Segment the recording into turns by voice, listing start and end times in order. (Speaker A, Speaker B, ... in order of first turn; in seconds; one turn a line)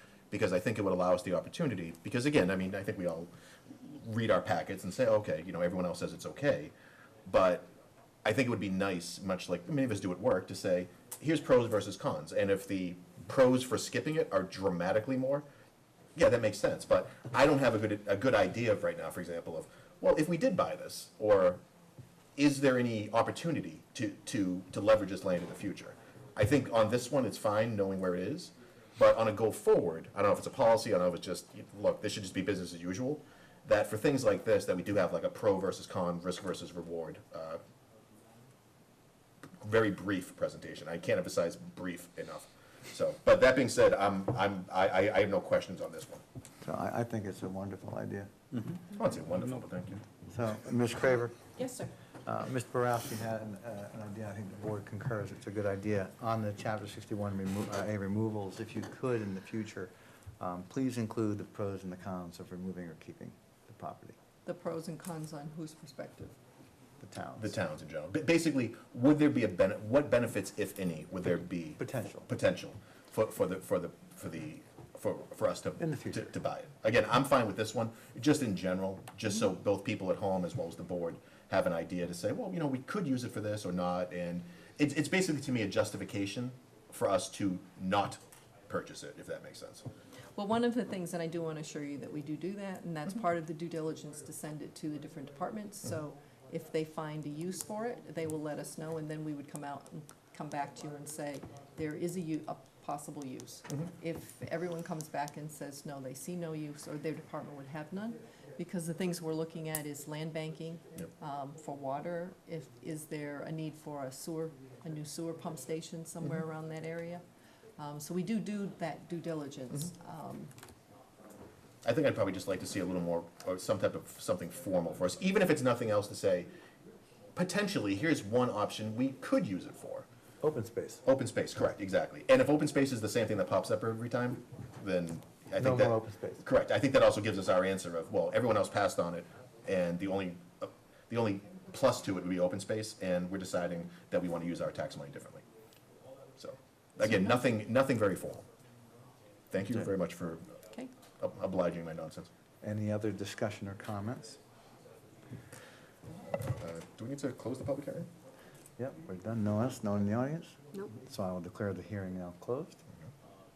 Speaker A: 0.3-6.7
Speaker A: 7.2-7.7
Speaker A: 8.2-15.4
Speaker A: 16.1-21.6
Speaker A: 22.4-37.6
Speaker A: 39.6-46.2
Speaker B: 46.6-48.3
Speaker A: 48.9-50.0
Speaker B: 50.3-51.5
Speaker B: 52.2-64.2
Speaker C: 64.5-66.4
Speaker B: 67.0-67.6
Speaker A: 67.4-89.9
Speaker B: 71.8-72.3
Speaker B: 75.8-76.3
Speaker C: 90.3-117.2
Speaker C: 117.8-120.5
Speaker A: 121.8-126.5
Speaker A: 127.3-130.1
Speaker B: 130.4-131.0
Speaker A: 131.0-145.4
Speaker B: 135.6-136.4
Speaker A: 146.4-148.4
Speaker A: 149.5-150.4
Speaker A: 151.2-152.3
Speaker B: 152.6-154.4
Speaker A: 156.5-158.1
Speaker B: 158.8-162.8